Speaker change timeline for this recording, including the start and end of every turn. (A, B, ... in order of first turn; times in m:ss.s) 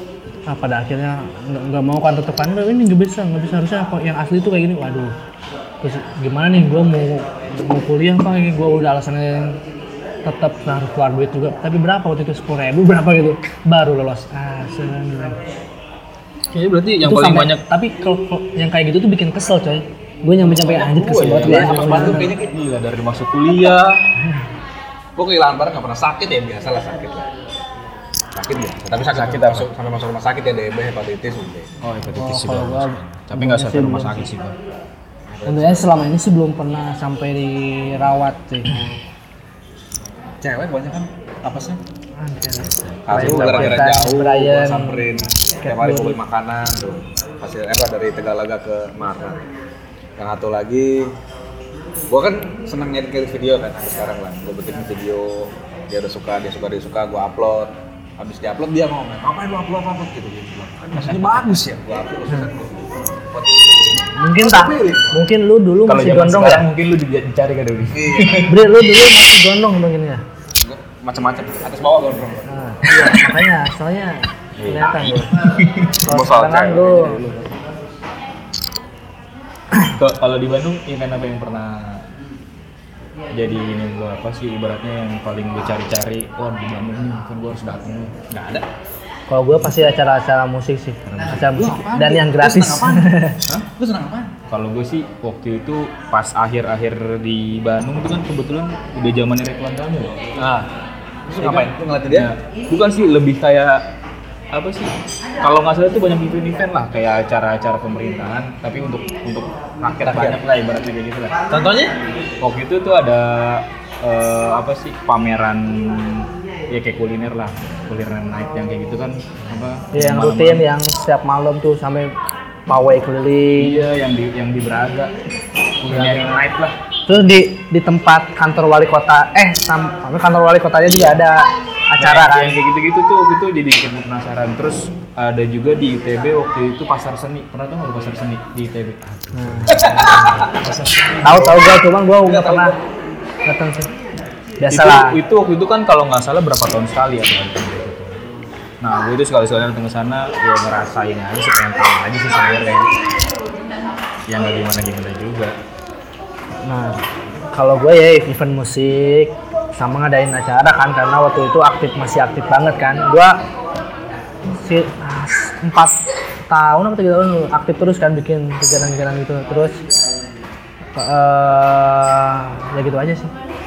0:00.4-0:05.1 A
0:05.8-0:09.6 A
0:10.2-0:15.4 A
0:16.5-0:17.6 B
0:17.0-0:22.3 A
0:20.4-0:24.0 B
0:20.9-0:22.6 C
0:25.2-0:27.3 C
0:28.3-0:31.7 C
0:29.1-0:29.7 B
0:31.8-0:34.6 B
0:32.1-0:34.2 A
0:35.3-0:36.0 C
0:35.4-0:38.8 A
0:40.4-0:41.8 C
0:42.2-0:45.0 A
0:42.5-0:44.0 B
0:43.0-0:49.5 C
0:45.6-0:46.2 A
0:50.2-0:51.1 C
0:52.1-1:05.2 C
1:04.0-1:06.6 A
1:05.8-1:08.5 B
1:07.9-1:08.6 C
1:08.4-1:10.2 A
1:10.6-1:12.5 C
1:12.5-1:15.3 A
1:14.6-1:15.9 B
1:14.7-1:15.2 C
1:16.0-1:17.2 A
1:16.0-1:17.5 C
1:19.8-1:22.0 B
1:23.3-1:28.3 B
1:28.3-1:28.6 C
1:29.3-1:33.4 A
1:31.1-1:31.5 B
1:31.3-1:34.3 C
1:34.5-1:40.1 B
1:40.4-1:40.7 C
1:41.3-1:42.3 C
1:41.4-1:43.8 B
1:44.5-1:51.4 B
1:50.0-1:50.4 C
1:51.5-1:52.0 C
1:52.4-2:00.6 B
1:59.9-2:02.1 A
2:02.7-2:03.8 A
2:03.6-2:05.1 B
2:05.8-2:06.7 B
2:05.9-2:06.3 A
2:07.1-2:12.6 A
2:10.9-2:11.2 B
2:12.0-2:21.8 B
2:19.3-2:20.5 A
2:19.7-2:20.7 C
2:21.2-2:22.7 A
2:22.2-2:22.8 C
2:23.4-2:23.9 A
2:24.6-2:25.2 A
2:24.7-2:28.2 B
2:28.8-2:32.9 B
2:34.3-2:35.5 B
2:36.6-2:37.0 A
2:37.5-2:43.4 A
2:44.6-2:49.8 A
2:50.9-2:53.3 A